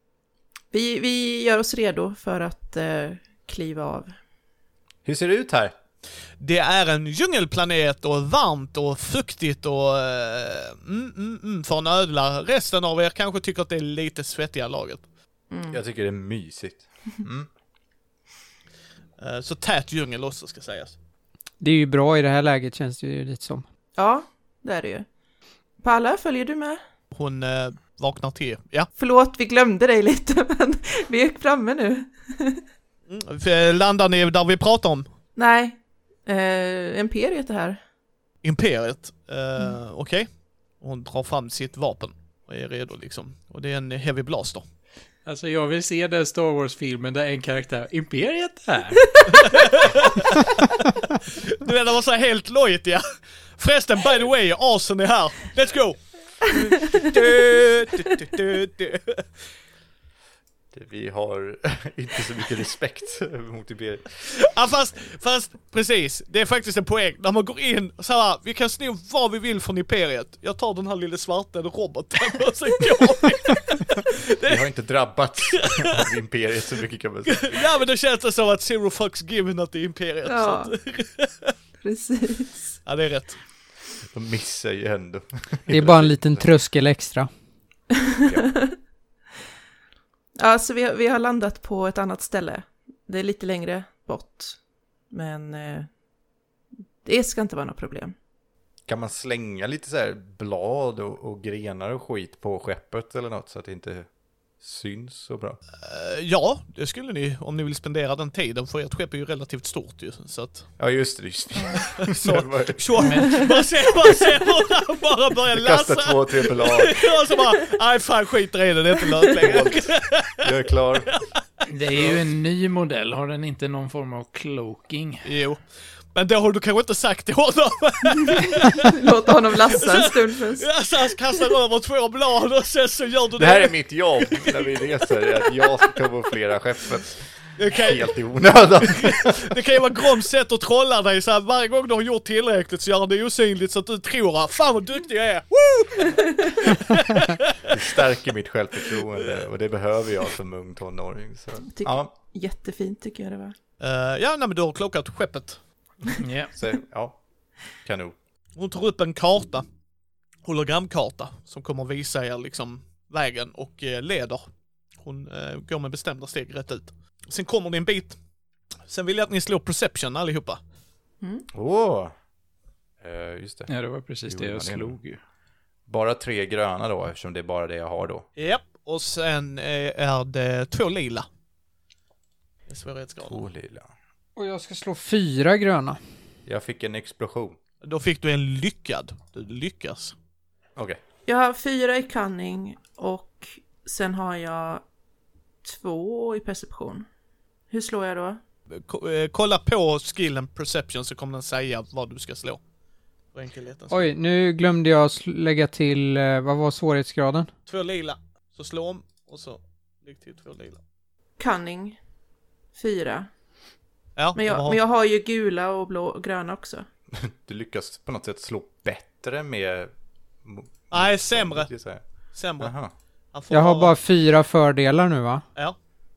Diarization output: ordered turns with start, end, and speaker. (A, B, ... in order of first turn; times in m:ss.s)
0:00.7-0:04.1 A
0:05.0-0:05.7 B
0:06.4-0:15.0 C
0:15.5-0:15.8 A
0:15.7-0:17.5 B
0:19.2-0:21.0 C
0:21.6-0:23.6 D
0:24.0-0:25.1 A
0:25.8-0:26.8 A
0:27.1-0:28.9 C
0:29.0-0:32.6 A
0:33.1-0:35.1 C
0:35.4-0:37.8 A
0:38.4-0:40.3 C
0:40.8-0:44.6 C
0:45.3-0:49.5 E
0:49.4-0:50.5 C
0:51.2-0:53.0 C
0:53.6-0:59.3 C
1:00.7-1:04.2 B
1:04.4-1:14.6 C
1:14.4-1:17.6 B
1:15.6-1:15.9 C
1:17.3-1:21.5 C
1:20.3-1:20.7 A
1:21.8-1:22.6 A
1:22.8-1:23.4 C
1:24.1-1:26.5 B
1:25.7-1:27.3 D
1:28.0-1:28.7 A
1:28.2-1:28.5 B
1:30.4-1:34.6 A
1:35.1-1:35.9 A
1:37.0-1:38.1 A
1:38.9-1:44.1 B
1:44.6-1:45.6 B
1:45.8-1:50.7 C
1:50.8-1:53.0 B
1:52.0-2:00.5 C
1:53.0-1:53.4 E
1:55.5-1:57.1 B
1:59.4-1:59.8 B
2:00.4-2:01.1 B
2:01.1-2:01.4 C
2:01.7-2:05.3 E
2:05.2-2:05.6 C
2:06.1-2:09.1 C
2:08.8-2:10.7 A
2:09.6-2:16.0 C
2:13.4-2:19.5 B
2:17.6-2:18.2 C
2:18.8-2:27.5 C
2:27.6-2:32.1 B
2:31.7-2:33.6 A
2:33.8-2:35.6 C
2:36.2-2:36.5 E
2:36.5-2:37.2 B
2:37.8-2:38.2 B
2:38.6-2:39.6 C
2:40.4-2:44.4 C
2:45.0-2:48.2 C
2:48.9-2:50.6 C
2:51.5-2:52.1 B
2:53.0-2:53.7 B
2:53.7-2:55.2 E
2:54.3-2:55.0 B
2:55.9-2:58.3 B
2:58.4-3:01.3 C
3:02.7-3:03.4 C
3:03.2-3:03.9 B
3:04.4-3:06.0 D
3:06.5-3:07.6 B
3:07.8-3:10.2 C
3:11.3-3:14.8 A
3:15.6-3:17.1 A
3:17.7-3:18.4 A
3:18.7-3:22.6 C
3:23.3-3:24.1 C
3:23.9-3:27.5 D
3:27.7-3:30.8 C
3:31.4-3:32.0 A
3:32.8-3:33.3 A
3:34.2-3:34.8 C
3:34.4-3:36.9 A
3:37.1-3:39.9 B
3:40.4-3:42.0 B
3:40.9-3:41.7 C
3:42.3-3:42.7 C
3:42.6-3:42.9 B
3:43.3-3:44.0 C
3:43.5-3:45.4 D